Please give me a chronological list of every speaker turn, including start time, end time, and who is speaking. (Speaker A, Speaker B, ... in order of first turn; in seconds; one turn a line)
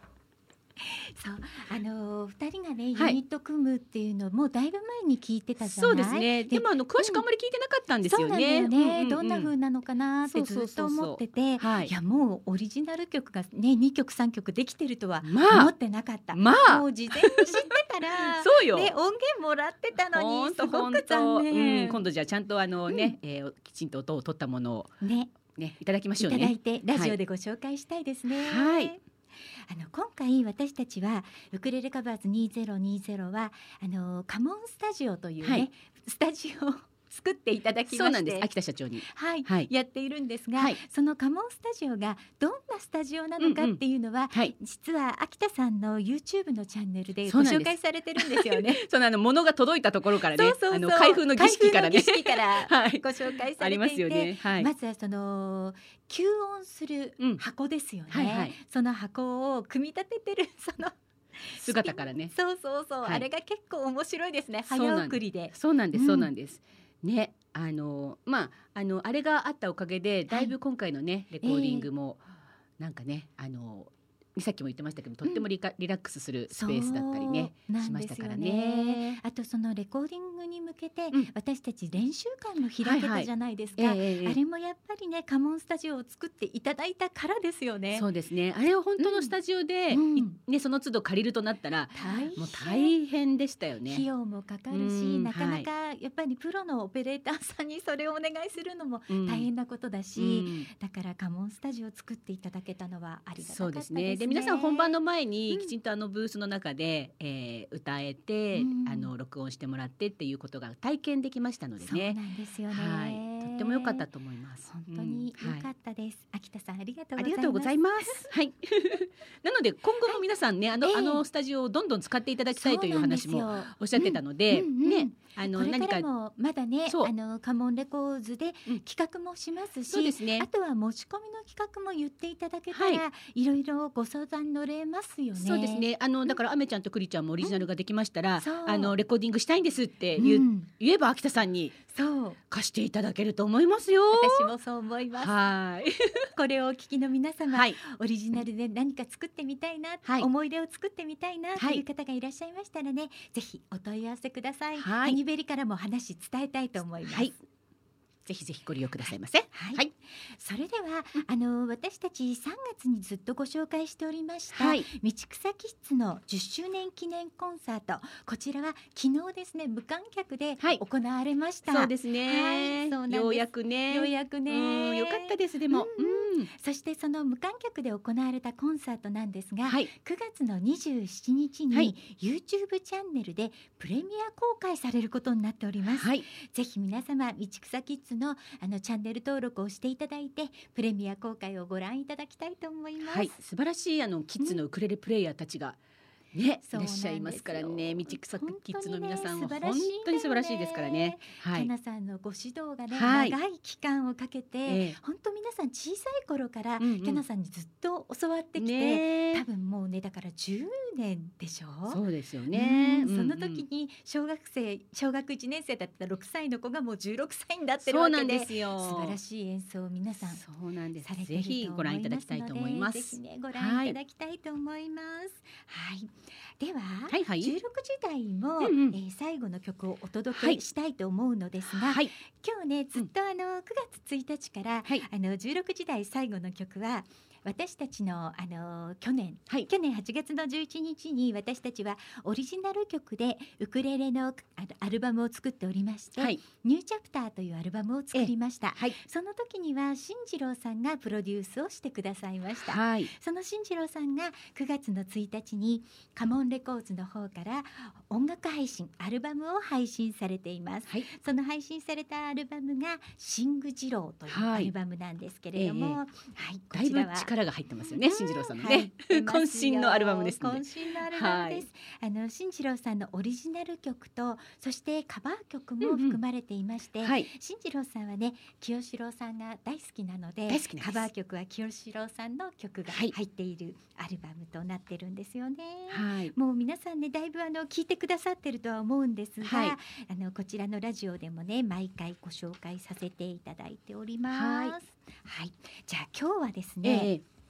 Speaker A: 0.9-7.2
Speaker B: 5.6-9.5
Speaker A: 8.1-22.0
Speaker B: 10.3-11.9
Speaker B: 15.2-15.7
Speaker B: 16.3-17.7
Speaker B: 18.3-18.9
Speaker B: 20.1-24.9
Speaker A: 22.9-23.1
Speaker A: 25.0-25.3
Speaker B: 25.5-27.2
Speaker A: 26.2-29.0
Speaker B: 28.4-28.9
Speaker A: 29.7-38.5
Speaker B: 37.9-39.7
Speaker A: 39.1-48.8
Speaker B: 43.4-44.5
Speaker B: 47.3-54.7
Speaker A: 50.4-61.0
Speaker B: 58.1-58.5
Speaker A: 61.5-66.3
Speaker B: 61.6-62.4
Speaker B: 64.7-72.2
Speaker A: 70.3-70.5
Speaker A: 71.4-71.9
Speaker B: 72.8-79.2
Speaker A: 76.5-88.1
Speaker B: 82.8-84.4
Speaker B: 87.9-94.1
Speaker A: 89.0-89.3
Speaker A: 89.9-90.4
Speaker A: 92.0-92.9
Speaker A: 93.9-105.0
Speaker B: 94.7-95.7
Speaker B: 99.1-99.5
Speaker B: 100.2-100.7
Speaker B: 103.4-112.2
Speaker A: 108.5-109.1
Speaker A: 111.8-114.0
Speaker B: 112.7-115.7
Speaker A: 114.7-118.3
Speaker B: 117.2-126.1
Speaker A: 120.8-121.2
Speaker A: 122.6-135.8
Speaker B: 126.9-127.1
Speaker B: 129.9-130.5
Speaker B: 132.7-133.0
Speaker B: 135.4-141.8
Speaker A: 138.4-138.9
Speaker A: 140.2-140.7
Speaker A: 141.9-142.4
Speaker B: 142.5-144.5
Speaker A: 144.1-145.3
Speaker B: 145.2-146.3
Speaker A: 146.3-157.3
Speaker B: 147.5-147.8
Speaker B: 151.6-151.8
Speaker B: 154.8-155.2
Speaker B: 157.1-157.3
Speaker B: 158.3-159.9
Speaker A: 159.5-193.3
Speaker B: 164.5-164.9
Speaker B: 171.7-176.5
Speaker B: 185.9-186.2
Speaker B: 193.0-195.8
Speaker B: 196.3-201.7
Speaker A: 196.7-212.0
Speaker B: 202.9-203.4
Speaker B: 204.7-205.0
Speaker B: 206.8-207.2
Speaker B: 208.6-209.4
Speaker B: 211.9-213.6
Speaker A: 212.5-220.4
Speaker B: 217.8-219.2
Speaker B: 220.2-224.0
Speaker A: 221.0-267.3
Speaker B: 227.1-227.6
Speaker B: 228.6-229.0
Speaker B: 230.3-230.6
Speaker B: 231.8-232.1
Speaker B: 248.1-249.0
Speaker B: 252.7-253.1
Speaker B: 264.3-264.7
Speaker B: 265.6-266.0
Speaker B: 266.7-271.6
Speaker A: 268.0-297.1
Speaker B: 275.8-276.2
Speaker B: 277.0-277.3
Speaker B: 280.5-281.1
Speaker B: 282.9-283.1
Speaker B: 285.9-286.3
Speaker B: 289.4-289.8
Speaker B: 294.3-294.8
Speaker B: 296.8-297.2